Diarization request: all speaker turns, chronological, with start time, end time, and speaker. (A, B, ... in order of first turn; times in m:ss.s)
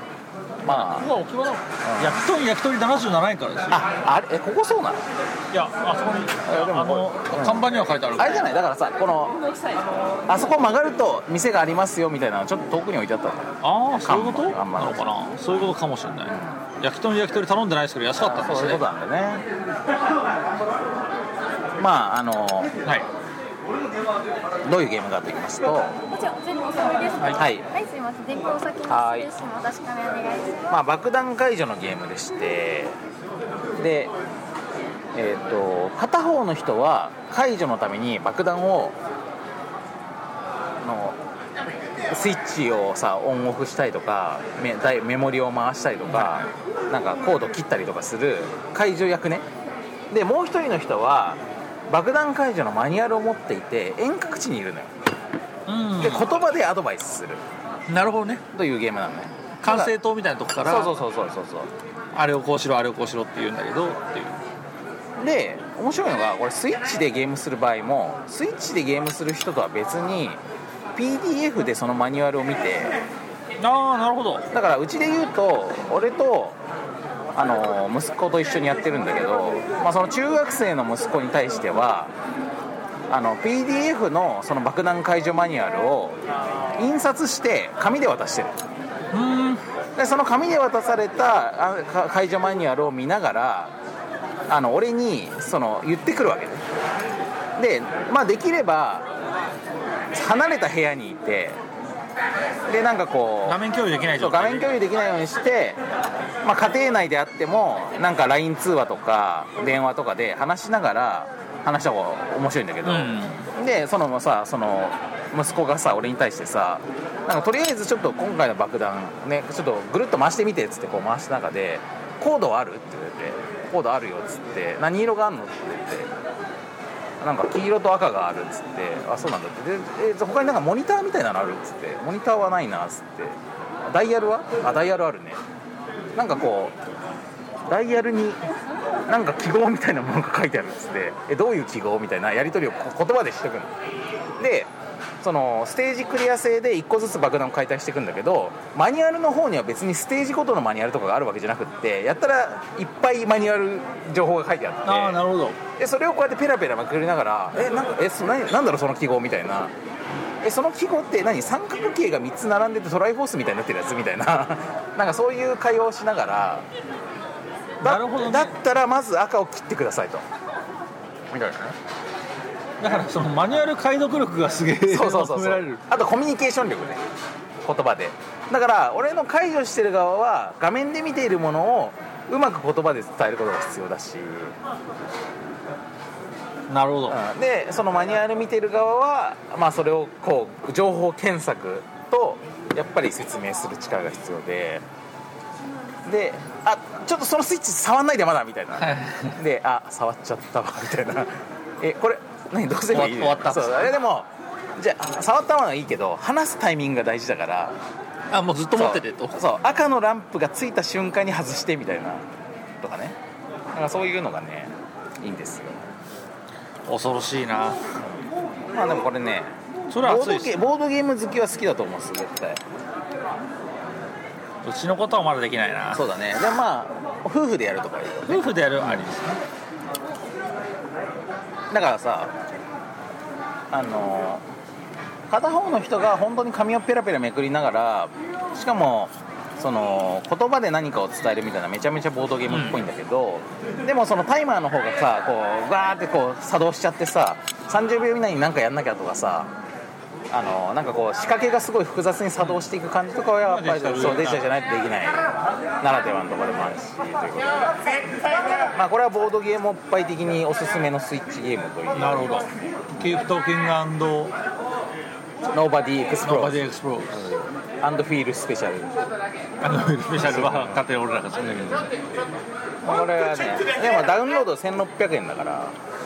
0:00.6-0:01.1 A
0:00.6-0:03.8 B
0:01.8-0:02.2 A
0:03.7-0:05.0 A
0:05.5-0:08.5 B
0:06.5-0:09.4 A
0:10.3-0:15.1 A
0:13.6-0:18.8 B
0:18.2-0:19.5 A
0:21.8-0:22.7 A
0:24.6-0:26.0 A
0:26.1-0:30.7 C
0:27.3-0:27.7 A
0:28.9-0:29.3 A
0:30.7-0:33.0 A
0:33.8-0:34.1 A
0:35.1-0:39.0 A
0:40.8-0:41.2 A
0:42.0-0:49.5 A
0:46.1-0:46.5 B
0:50.1-0:54.9 A
0:55.7-0:56.3 B
0:56.0-0:57.4 A
0:57.9-0:58.4 B
0:58.5-0:59.9 A
0:59.6-1:01.0 B
1:00.6-1:01.7 A
1:02.1-1:04.4 B
1:05.2-1:10.4 A
1:11.0-1:13.0 A
1:13.6-1:14.5 B
1:14.5-1:16.6 A
1:17.4-1:22.1 A
1:23.1-1:26.2 A
1:26.7-1:28.6 A
1:29.1-1:29.6 B
1:30.0-1:33.8 A
1:34.5-1:36.6 A
1:37.6-1:39.1 A
1:40.1-1:41.6 A
1:42.7-1:43.6 A
1:43.4-1:44.7 B
1:44.2-1:45.8 A
1:46.4-2:06.1 A
1:52.8-1:53.5 B
2:07.2-2:15.4 A
2:16.2-2:16.8 A
2:17.7-2:18.4 A
2:19.1-2:23.7 A
2:24.4-2:39.7 A
2:34.8-2:35.6 B
2:40.4-2:46.7 A
2:47.8-2:48.6 B
2:47.8-2:50.2 A
2:51.3-2:51.8 A
2:52.8-2:55.8 B
2:54.9-2:57.0 A
2:57.6-3:04.6 A
3:06.7-3:07.2 B
3:07.1-3:14.8 A
3:16.0-3:27.8 A
3:18.8-3:19.4 B
3:22.9-3:23.9 B
3:28.3-3:29.4 B
3:28.7-3:32.3 A
3:32.8-3:33.2 A
3:33.7-3:35.8 A
3:36.9-3:37.9 B
3:38.7-3:42.6 A
3:39.9-3:40.6 B
3:44.6-3:46.0 B
3:45.9-3:49.1 A
3:48.3-3:49.4 B
3:51.7-3:52.4 A
3:53.7-3:54.4 A
3:55.3-4:09.5 A
4:02.5-4:02.8 B
4:10.3-4:17.7 A
4:13.4-4:14.5 B
4:18.6-4:23.0 A
4:21.9-4:24.3 B
4:25.5-4:29.0 A
4:26.2-4:27.3 B
4:29.6-4:31.9 B
4:30.2-4:30.8 A
4:32.8-4:35.8 A